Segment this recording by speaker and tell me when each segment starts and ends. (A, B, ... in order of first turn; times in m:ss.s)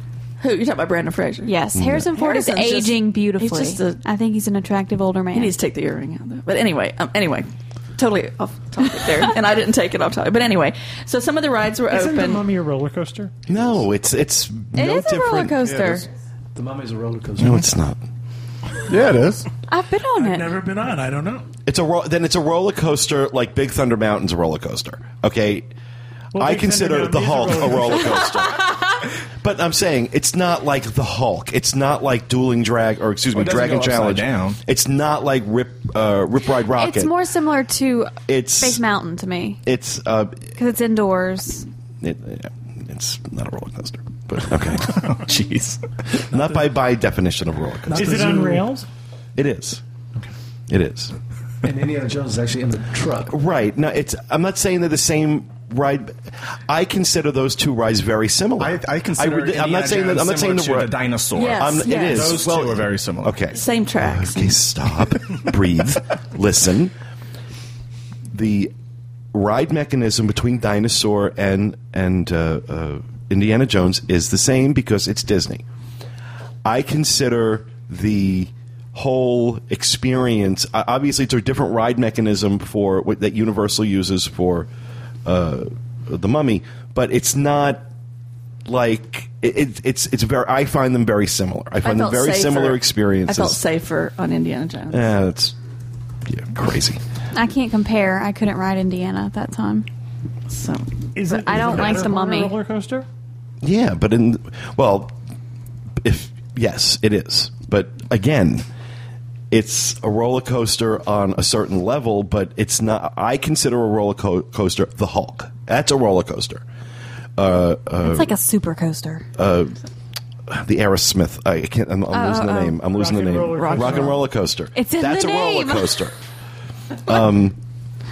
0:00.4-0:01.6 A
0:01.4-0:05.5 B
0:01.7-0:02.1 C
0:02.1-0:04.0 A
0:05.3-0:12.4 A
0:11.9-0:13.3 D
0:13.5-0:15.6 C
0:14.7-0:16.0 B
0:16.5-0:17.7 E
0:17.4-0:18.0 C
0:18.9-0:19.5 F
0:19.7-0:20.5 B
0:20.1-0:21.5 G
0:21.6-0:25.7 C
0:26.3-0:28.3 D
0:26.4-0:28.7 C
0:29.4-0:37.1 C
0:33.3-0:34.6 F
0:36.7-0:39.6 B
0:38.3-0:38.8 C
0:39.6-0:40.5 C
0:40.6-0:41.6 B
0:42.0-0:45.0 C
0:44.5-0:45.9 F
0:46.3-0:48.3 C
0:47.9-0:48.6 G
0:47.9-0:48.8 D
0:49.4-0:49.8 C
0:50.7-0:51.1 C
0:51.6-0:53.4 E
0:53.3-1:00.9 C
0:58.6-1:03.4 F
1:01.3-1:02.5 A
1:01.6-1:06.9 C
1:03.5-1:04.6 A
1:08.3-1:08.7 C
1:09.3-1:15.6 C
1:16.6-1:24.7 C
1:25.2-1:27.8 C
1:28.6-1:33.6 C
1:31.8-1:35.1 A
1:34.9-1:35.5 C
1:36.3-1:37.0 C
1:37.3-1:39.9 B
1:40.5-1:40.9 A
1:41.1-1:43.1 D
1:41.3-1:42.5 B
1:41.5-1:42.0 A
1:43.6-1:45.1 C
1:46.0-1:48.6 C
1:49.5-1:56.6 C
1:57.4-1:58.3 C
1:58.0-1:59.3 B
1:59.4-1:59.8 C
2:00.5-2:06.1 C
2:02.1-2:02.8 B
2:02.8-2:04.2 D
2:03.6-2:04.1 A
2:04.7-2:06.1 B
2:07.0-2:07.6 C